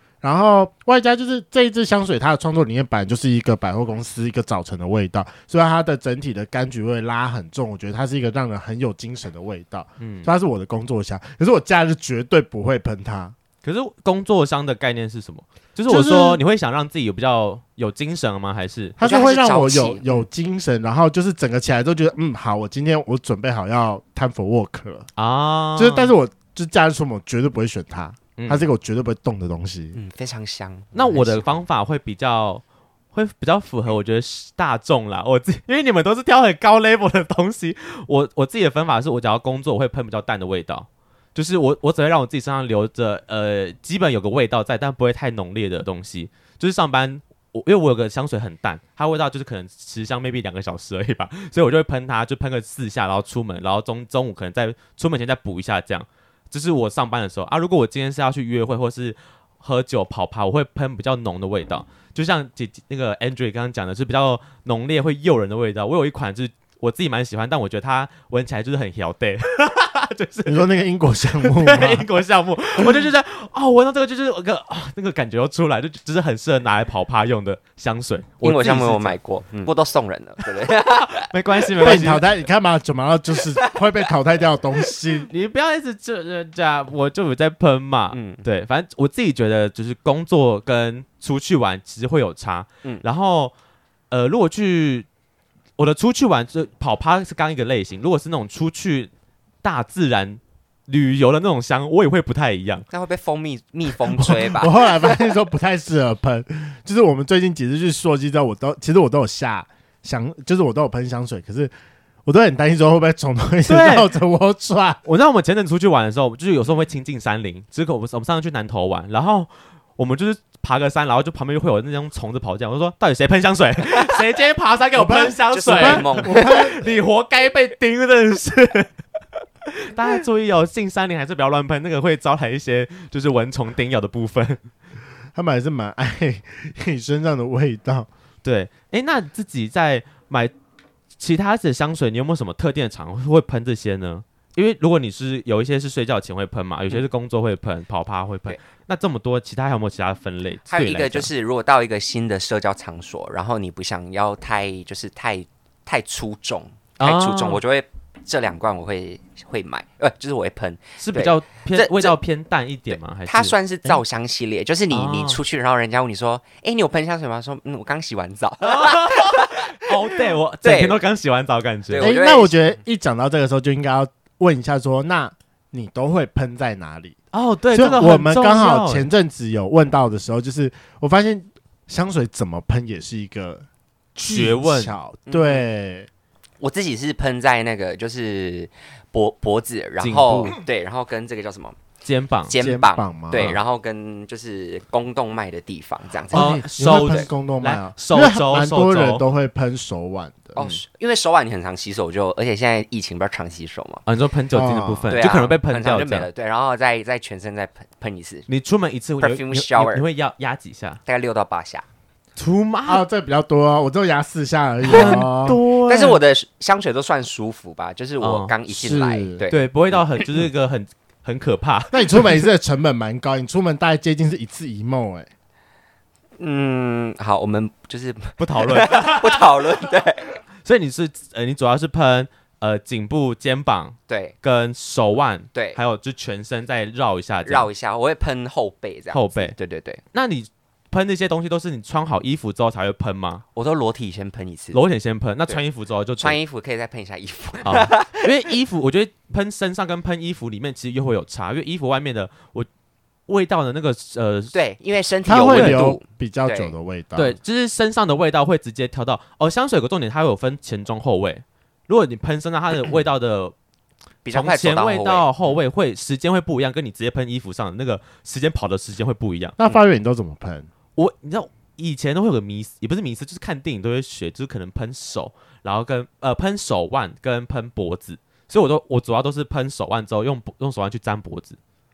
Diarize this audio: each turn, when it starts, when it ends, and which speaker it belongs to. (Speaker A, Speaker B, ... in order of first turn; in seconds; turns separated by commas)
Speaker A: 0.2-13.3, Speaker B: 10.0-10.3, Speaker B: 13.6-19.0, Speaker A: 15.9-16.4, Speaker A: 19.0-25.1, Speaker C: 19.0-20.2, Speaker B: 25.2-26.1, Speaker A: 25.8-30.0, Speaker B: 28.4-28.6, Speaker C: 29.9-31.6, Speaker B: 30.9-70.7, Speaker A: 70.5-72.1, Speaker B: 71.4-79.2, Speaker A: 72.8-73.0, Speaker C: 78.4-82.0, Speaker B: 81.1-82.3, Speaker A: 81.8-85.3, Speaker B: 85.3-93.5, Speaker C: 88.1-88.4, Speaker B: 94.1-95.1, Speaker B: 95.8-99.1, Speaker B: 99.6-102.9, Speaker C: 102.9-105.3, Speaker A: 104.2-111.7, Speaker A: 112.3-115.0, Speaker B: 113.7-114.1, Speaker B: 115.0-128.9, Speaker A: 125.0-126.9, Speaker C: 125.5-126.7, Speaker B: 129.7-134.6, Speaker A: 135.3-138.1, Speaker B: 138.4-140.5, Speaker B: 141.2-151.3, Speaker C: 150.7-162.2, Speaker B: 157.0-157.6, Speaker B: 161.0-163.5, Speaker C: 162.9-171.0, Speaker B: 164.9-165.4, Speaker B: 168.6-172.1, Speaker C: 171.9-172.7, Speaker A: 172.0-177.2, Speaker B: 177.3-179.1, Speaker A: 177.7-183.6, Speaker A: 184.2-186.1, Speaker B: 184.2-185.0, Speaker C: 185.3-185.6, Speaker C: 186.6-191.8, Speaker B: 190.0-190.6, Speaker B: 192.0-192.5, Speaker C: 192.5-197.3, Speaker A: 192.5-193.6, Speaker A: 196.3-200.6, Speaker B: 196.3-199.2, Speaker C: 200.6-204.0, Speaker B: 204.1-206.3, Speaker A: 204.5-205.2, Speaker C: 205.1-208.5, Speaker B: 208.5-211.0, Speaker C: 209.2-210.1, Speaker C: 211.1-211.8, Speaker B: 212.4-213.1, Speaker A: 212.9-215.6, Speaker B: 214.9-216.2, Speaker C: 214.9-215.2, Speaker C: 215.8-220.3, Speaker B: 218.2-218.5, Speaker A: 218.7-219.4, Speaker B: 219.5-222.4, Speaker A: 221.9-225.3, Speaker C: 226.4-230.4, Speaker B: 228.4-229.8, Speaker B: 230.6-237.7, Speaker C: 234.1-234.3, Speaker C: 235.5-235.8, Speaker C: 237.4-240.0, Speaker B: 239.1-239.6, Speaker B: 240.1-243.4, Speaker C: 243.5-244.8, Speaker B: 244.7-246.4, Speaker C: 246.2-248.3, Speaker B: 247.6-252.7, Speaker B: 253.3-254.6, Speaker C: 254.5-256.7, Speaker A: 255.3-257.4, Speaker B: 255.5-255.9, Speaker B: 257.1-263.5, Speaker C: 264.2-265.3, Speaker B: 264.3-269.6, Speaker A: 269.6-270.7, Speaker B: 271.0-281.6